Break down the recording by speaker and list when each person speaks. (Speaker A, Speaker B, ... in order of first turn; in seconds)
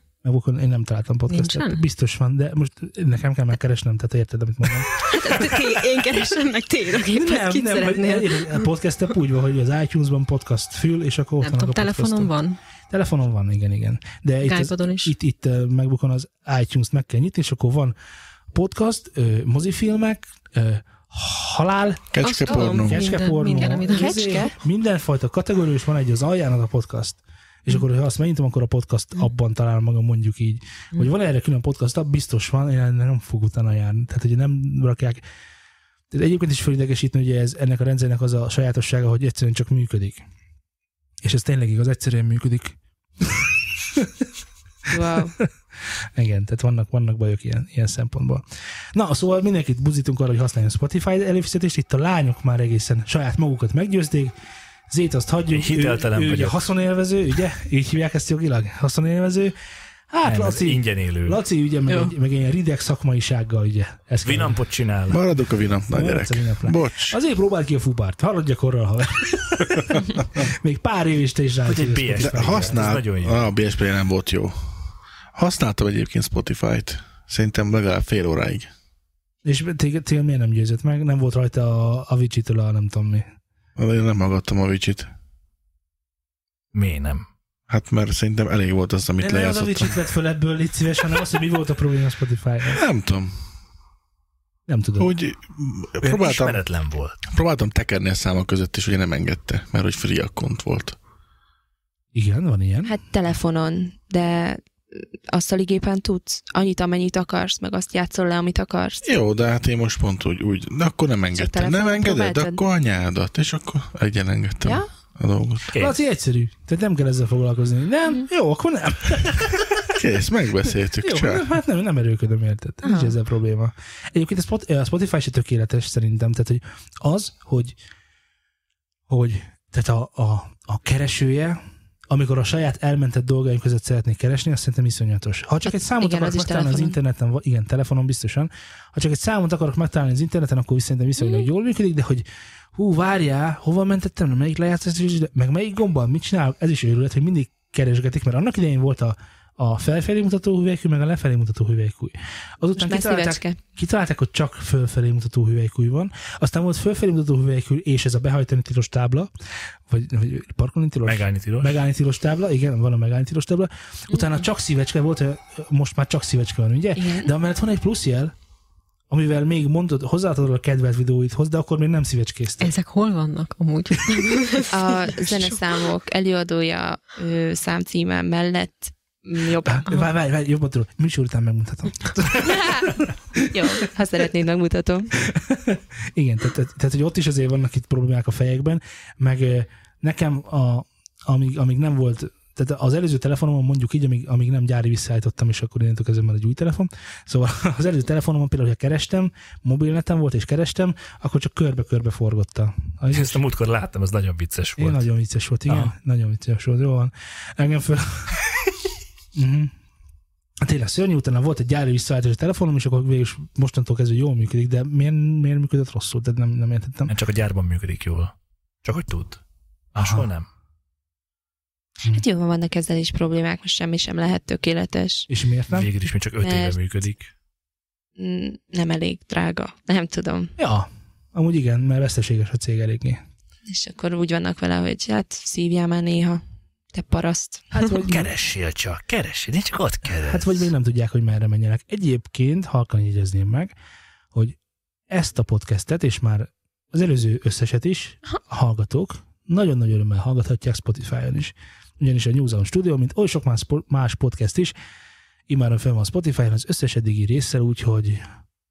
Speaker A: 0.2-5.5, 7.1-12.3, 12.9-17.9, 18.5-35.2, 36.1-40.2, 41.2-44.3, 45.1-54.4, 54.9-59.5, 60.1-64.6, 65.9-73.0, 79.5-83.3, 89.2-92.8, 94.7-95.1, 102.1-103.0, 115.8-119.9, 121.0-127.8, 129.1-159.3, 159.9-168.3, 169.1-172.8, 179.7-183.5, 185.2-203.4, 204.8-208.4, 209.3-209.7, 210.6-217.1, 220.0-220.3, 225.3-225.9, 230.6-233.2, 237.7-238.3, 240.2-243.7, 245.1-254.7, 255.5-258.2
Speaker B: 1.3-1.8, 5.0-8.7, 11.4-12.6, 14.4-15.1, 22.2-24.5, 172.6-175.6
Speaker C: 22.1-23.1, 65.1-67.2, 72.2-74.5, 75.3-78.7, 83.8-85.1, 87.7-90.0, 92.7-93.3, 95.0-96.6, 97.3-101.0, 109.0-115.7, 119.9-121.5
Speaker D: 23.9-24.6, 44.9-45.4, 102.8-109.1, 111.3-112.6, 122.8-123.1, 135.7-137.0, 152.8-153.6, 167.0-167.3, 174.7-180.0, 182.4-185.1, 222.1-225.3, 226.4-226.8, 228.2-230.5, 233.7-236.4, 236.9-237.7
Speaker E: 55.5-56.7, 60.2-61.4, 64.2-65.2, 71.7-73.5, 86.7-87.3, 96.0-97.2, 115.7-116.0, 161.1-161.8, 203.1-205.1, 205.7-205.9, 217.1-218.3, 218.8-219.4, 219.9-220.5, 225.7-227.3, 237.9-240.7